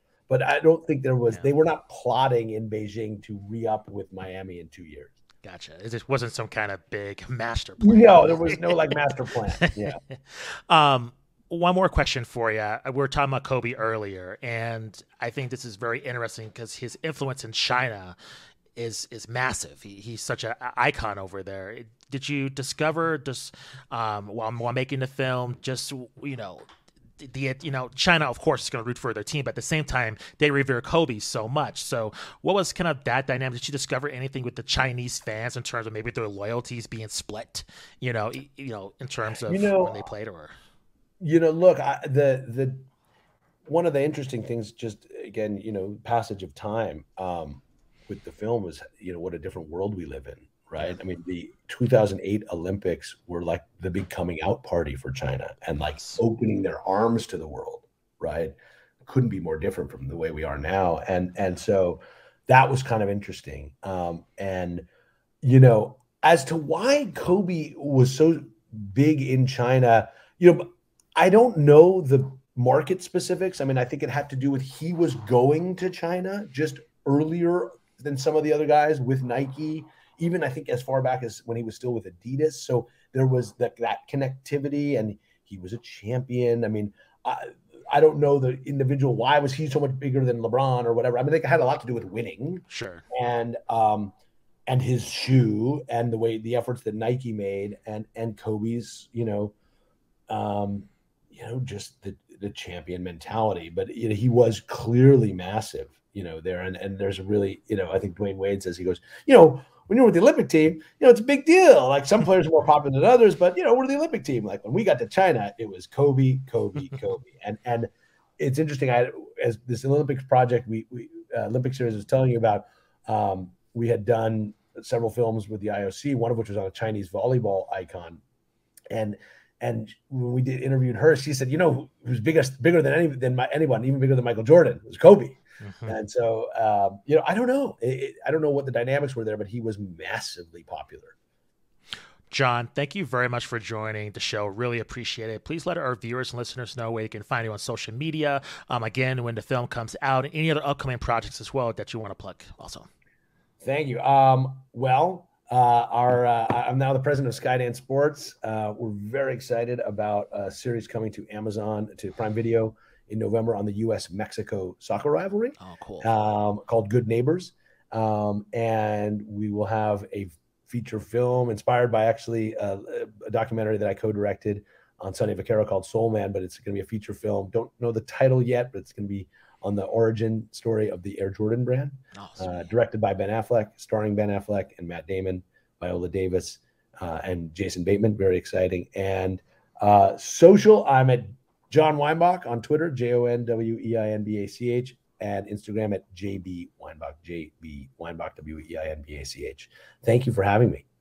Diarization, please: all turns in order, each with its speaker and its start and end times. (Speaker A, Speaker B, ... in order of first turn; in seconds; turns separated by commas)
Speaker A: 0.3-5.1, Speaker B: 5.4-9.0, Speaker A: 7.8-10.0, Speaker B: 9.6-18.1, Speaker B: 18.8-26.6, Speaker B: 27.2-40.5, Speaker A: 39.3-40.1, Speaker A: 41.2-42.8, Speaker A: 43.6-64.9, Speaker B: 55.8-56.2, Speaker A: 65.4-94.1, Speaker B: 92.7-93.0, Speaker A: 94.7-99.5, Speaker A: 100.3-128.2, Speaker A: 128.9-141.1, Speaker B: 135.6-135.9, Speaker B: 142.3-152.9, Speaker A: 153.6-200.8, Speaker B: 165.6-166.1, Speaker B: 182.1-182.7